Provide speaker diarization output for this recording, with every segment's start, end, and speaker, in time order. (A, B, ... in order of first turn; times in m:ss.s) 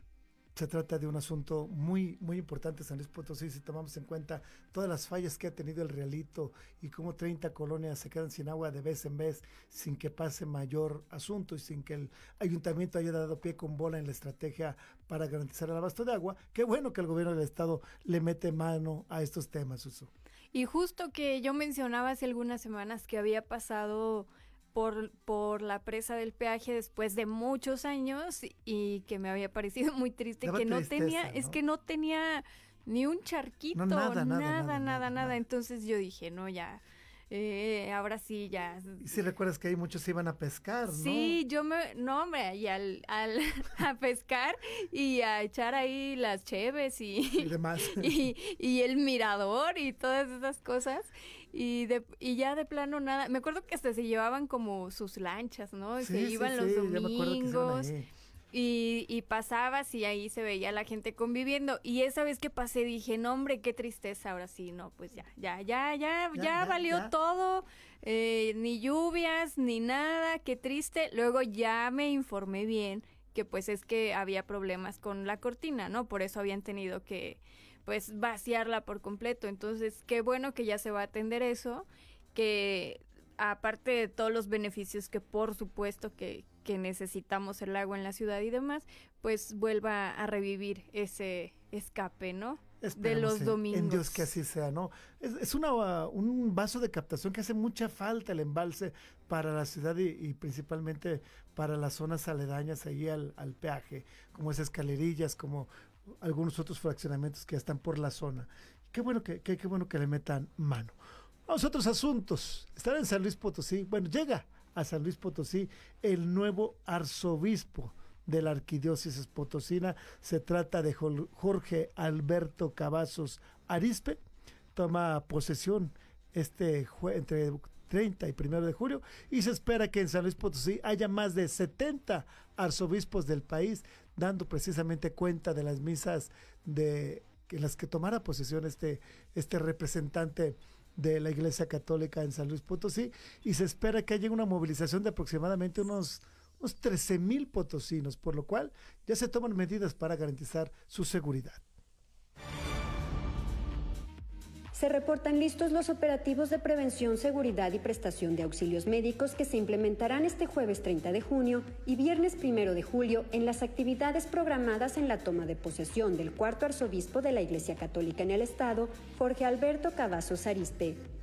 0:00.6-0:20.1 A
0:20.5-0:39.0 B
0:30.4-0:31.6 A
0:33.7-0:35.4 A
0:39.0-0:41.4 A
0:40.9-0:57.9 B
0:47.4-0:48.3 A
0:56.0-0:58.1 A
0:58.5-1:34.3 B
1:06.3-1:07.1 A
1:32.8-2:04.2 A
2:04.8-2:31.6 A
2:34.7-2:51.0 C